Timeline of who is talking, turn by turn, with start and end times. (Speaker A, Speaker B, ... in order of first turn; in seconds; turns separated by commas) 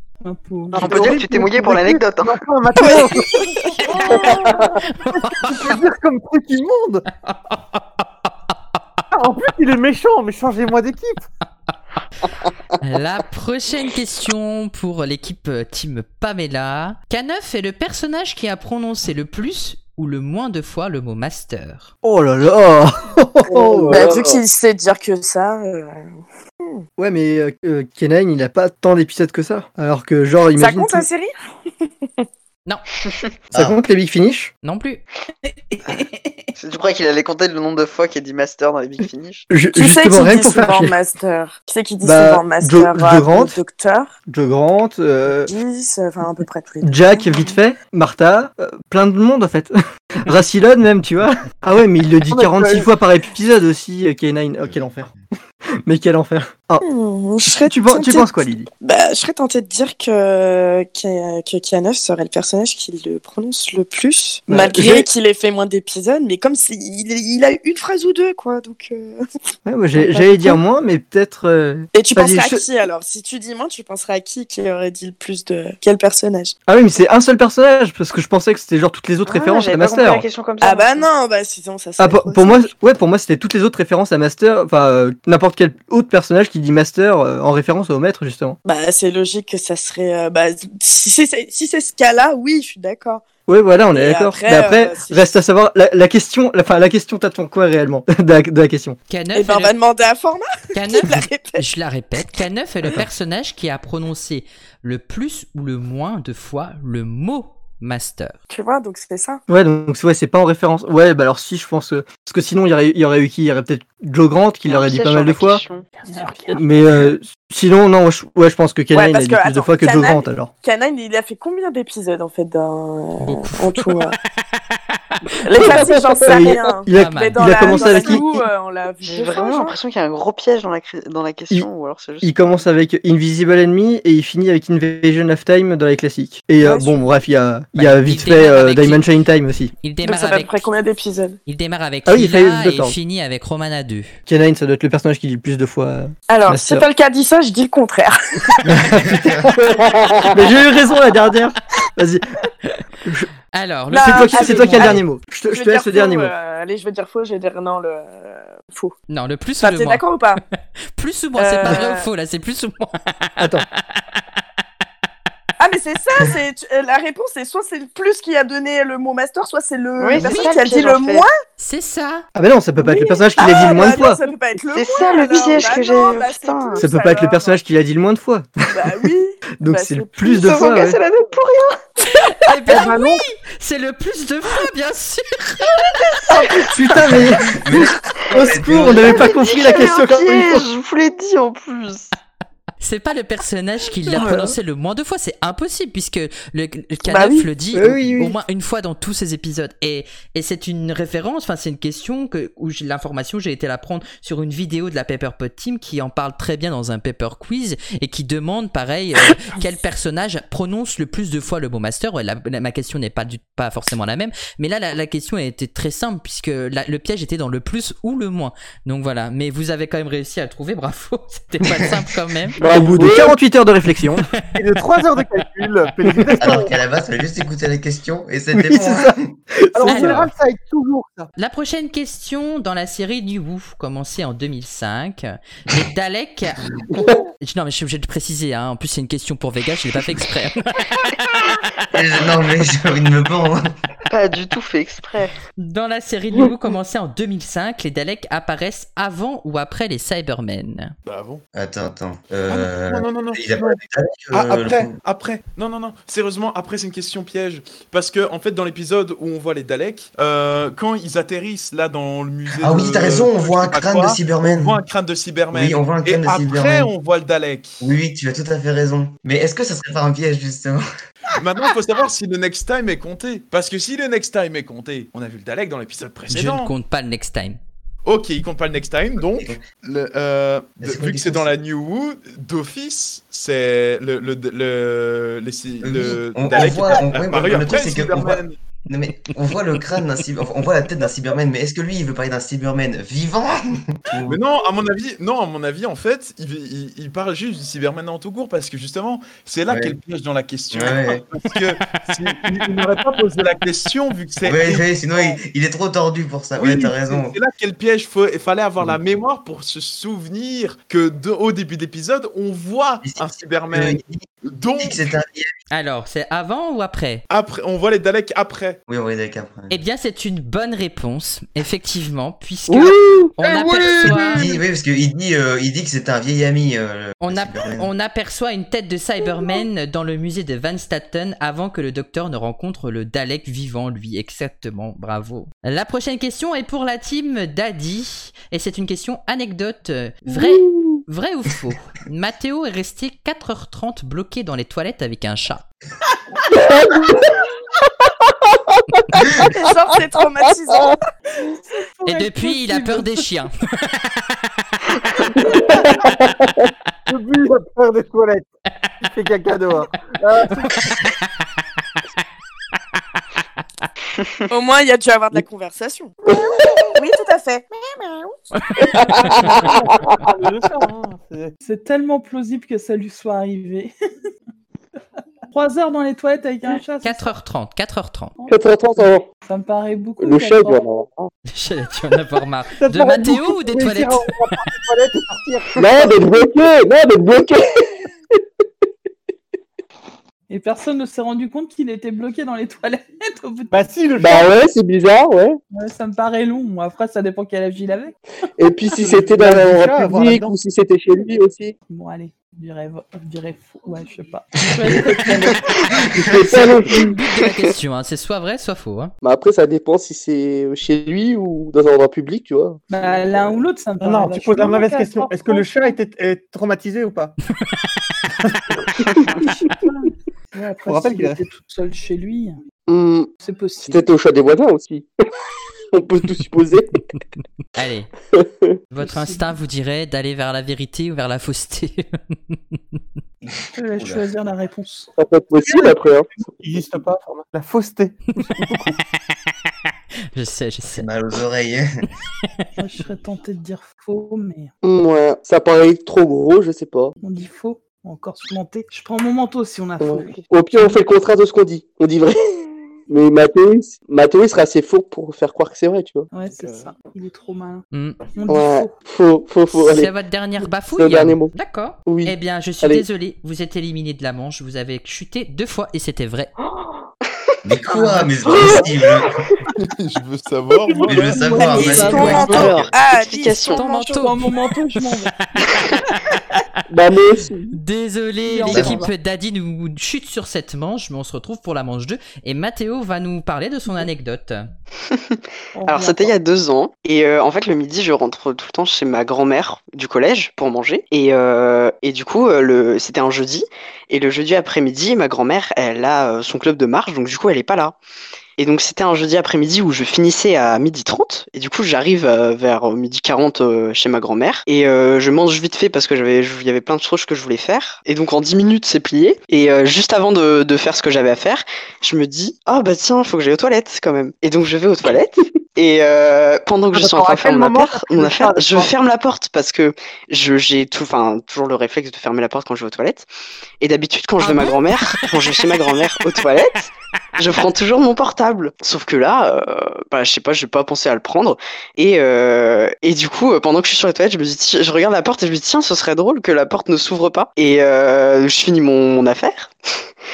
Speaker A: 0.2-1.2, Speaker B: 0.7-3.5, Speaker C: 0.7-2.4, Speaker D: 2.8-3.5, Speaker D: 4.1-4.5, Speaker E: 4.2-4.7, Speaker F: 4.9-5.8, Speaker B: 5.1-7.0, Speaker F: 7.2-7.8, Speaker B: 9.1-11.3, Speaker F: 12.8-21.9, Speaker G: 22.0-24.1, Speaker E: 23.4-24.4, Speaker D: 23.9-26.0, Speaker G: 27.0-31.1, Speaker D: 30.5-31.3, Speaker G: 33.5-34.5, Speaker F: 34.6-35.0, Speaker A: 35.5-36.3, Speaker C: 36.5-39.5, Speaker G: 39.5-40.9, Speaker D: 39.7-44.1, Speaker G: 42.0-43.5, Speaker G: 44.3-45.5, Speaker D: 45.5-47.6, Speaker G: 46.8-55.1, Speaker B: 52.3-52.9, Speaker G: 55.8-56.8, Speaker D: 56.8-69.2, Speaker G: 57.5-58.7, Speaker G: 64.5-65.1, Speaker G: 69.7-72.6, Speaker D: 70.0-70.6, Speaker D: 71.9-76.5, Speaker G: 76.7-80.2, Speaker C: 79.2-81.1, Speaker D: 80.6-82.7, Speaker G: 82.0-88.6, Speaker D: 88.6-93.2, Speaker G: 93.5-99.0, Speaker D: 93.9-95.3, Speaker F: 99.1-99.7, Speaker D: 99.3-101.6, Speaker F: 100.7-108.4, Speaker D: 108.5-109.4, Speaker G: 109.5-115.6, Speaker C: 114.6-115.9, Speaker A: 116.0-116.6, Speaker B: 116.2-116.5, Speaker G: 116.5-120.5, Speaker D: 118.9-124.1, Speaker F: 123.2-124.1, Speaker D: 125.5-129.8, Speaker E: 125.5-126.5, Speaker G: 126.2-128.4, Speaker F: 126.9-127.8, Speaker C: 129.0-132.3, Speaker G: 132.2-139.7, Speaker D: 136.6-137.0, Speaker F: 137.7-139.0, Speaker F: 139.8-140.6, Speaker D: 140.0-141.4, Speaker F: 141.4-144.2, Speaker G: 142.1-142.9, Speaker G: 144.3-146.8, Speaker D: 146.3-148.6, Speaker G: 148.6-149.6, Speaker H: 148.7-149.5, Speaker E: 149.6-150.4, Speaker G: 150.3-152.2, Speaker F: 153.5-155.0, Speaker D: 153.9-158.9, Speaker G: 154.0-156.3, Speaker F: 159.1-160.0, Speaker D: 159.6-160.4, Speaker F: 160.9-164.0, Speaker D: 161.4-162.1, Speaker G: 163.4-163.6, Speaker D: 165.6-171.3, Speaker C: 170.0-171.2, Speaker F: 170.2-170.6, Speaker F: 171.6-172.2, Speaker G: 172.3-174.2, Speaker D: 172.8-177.6, Speaker C: 174.7-176.8, Speaker G: 176.8-179.1, Speaker D: 178.7-180.6, Speaker G: 179.6-181.0, Speaker C: 180.4-181.8, Speaker F: 182.1-185.9, Speaker B: 182.8-183.1, Speaker C: 186.3-186.6, Speaker G: 186.7-190.7, Speaker H: 186.9-189.4, Speaker C: 189.0-192.1, Speaker F: 192.8-222.6, Speaker D: 197.0-197.5, Speaker G: 197.7-198.4, Speaker E: 222.6-223.3, Speaker G: 222.7-224.3, Speaker B: 224.5-226.7, Speaker G: 226.1-226.6, Speaker H: 226.4-229.3, Speaker G: 228.5-230.3, Speaker B: 229.7-231.3, Speaker F: 229.8-230.3, Speaker F: 231.3-236.6, Speaker F: 237.4-241.1, Speaker H: 241.9-243.6, Speaker C: 244.1-245.3, Speaker F: 245.6-250.9, Speaker I: 251.1-251.4, Speaker H: 251.5-254.9, Speaker B: 252.5-253.8, Speaker B: 254.3-254.9, Speaker I: 255.0-267.8, Speaker H: 262.6-264.8, Speaker H: 265.5-266.9, Speaker H: 267.8-270.8, Speaker I: 271.3-276.7, Speaker F: 276.3-277.6, Speaker I: 278.0-288.6, Speaker H: 280.8-281.5, Speaker H: 285.8-294.4, Speaker I: 294.2-304.8, Speaker H: 299.7-299.9, Speaker H: 300.7-301.2, Speaker H: 304.4-307.4, Speaker I: 306.6-315.2, Speaker H: 313.0-315.6, Speaker F: 315.7-317.2, Speaker I: 317.3-318.8, Speaker H: 318.9-319.7, Speaker F: 319.7-324.6, Speaker E: 322.7-324.2, Speaker H: 324.0-327.9, Speaker F: 327.2-345.6, Speaker E: 340.3-341.0, Speaker E: 346.5-347.4, Speaker E: 348.5-349.5, Speaker D: 349.5-351.0, Speaker E: 350.7-350.9, Speaker A: 351.4-353.3, Speaker F: 352.1-354.1, Speaker E: 355.3-356.7, Speaker B: 357.1-358.5, Speaker B: 359.1-360.9, Speaker F: 360.7-361.1, Speaker D: 364.5-366.1, Speaker E: 366.2-366.9, Speaker D: 366.9-368.3, Speaker F: 368.6-369.7, Speaker E: 368.8-370.3, Speaker B: 369.5-371.5, Speaker A: 371.6-373.9, Speaker A: 375.5-377.3, Speaker F: 377.0-378.3, Speaker E: 378.5-379.3, Speaker A: 379.4-380.8, Speaker E: 380.2-381.3, Speaker F: 381.5-384.3, Speaker B: 382.8-385.9, Speaker E: 385.8-388.0, Speaker A: 390.5-393.7, Speaker B: 393.7-394.5, Speaker E: 394.2-395.6, Speaker A: 395.7-398.2, Speaker E: 398.6-401.7, Speaker B: 398.9-400.6, Speaker A: 401.9-405.8, Speaker H: 404.6-406.6, Speaker E: 406.1-407.2, Speaker F: 406.4-409.1, Speaker E: 409.2-412.8, Speaker A: 412.9-416.0, Speaker B: 414.0-417.3, Speaker A: 420.5-422.6, Speaker B: 420.8-421.4, Speaker E: 422.9-423.3, Speaker A: 423.4-424.1, Speaker E: 423.9-425.1, Speaker E: 425.9-427.0, Speaker F: 427.7-428.1, Speaker E: 428.3-428.8, Speaker F: 428.9-433.0, Speaker A: 429.0-429.6, Speaker H: 433.5-434.3, Speaker A: 433.8-435.1, Speaker E: 435.1-436.3, Speaker B: 436.6-438.9, Speaker F: 440.3-441.1, Speaker H: 440.9-441.9, Speaker A: 442.8-444.7, Speaker E: 444.8-447.1, Speaker A: 447.2-451.0, Speaker E: 450.0-456.3, Speaker A: 456.3-458.9, Speaker B: 456.6-456.8, Speaker F: 457.9-458.2, Speaker E: 458.5-461.5, Speaker F: 459.7-466.5, Speaker E: 462.1-463.0, Speaker H: 467.6-469.4, Speaker E: 468.4-468.9, Speaker I: 469.8-471.5, Speaker E: 470.9-472.4, Speaker H: 471.0-472.9, Speaker A: 471.2-472.6, Speaker D: 471.6-474.4, Speaker C: 471.9-473.8, Speaker F: 473.7-475.3, Speaker A: 474.1-475.3, Speaker F: 476.3-476.6, Speaker E: 476.9-477.7, Speaker F: 477.7-484.7, Speaker A: 478.4-479.1, Speaker H: 478.7-479.1, Speaker C: 485.1-498.0, Speaker A: 485.7-486.3, Speaker C: 498.6-523.3, Speaker B: 516.9-518.9, Speaker C: 523.8-539.7, Speaker F: 524.4-525.2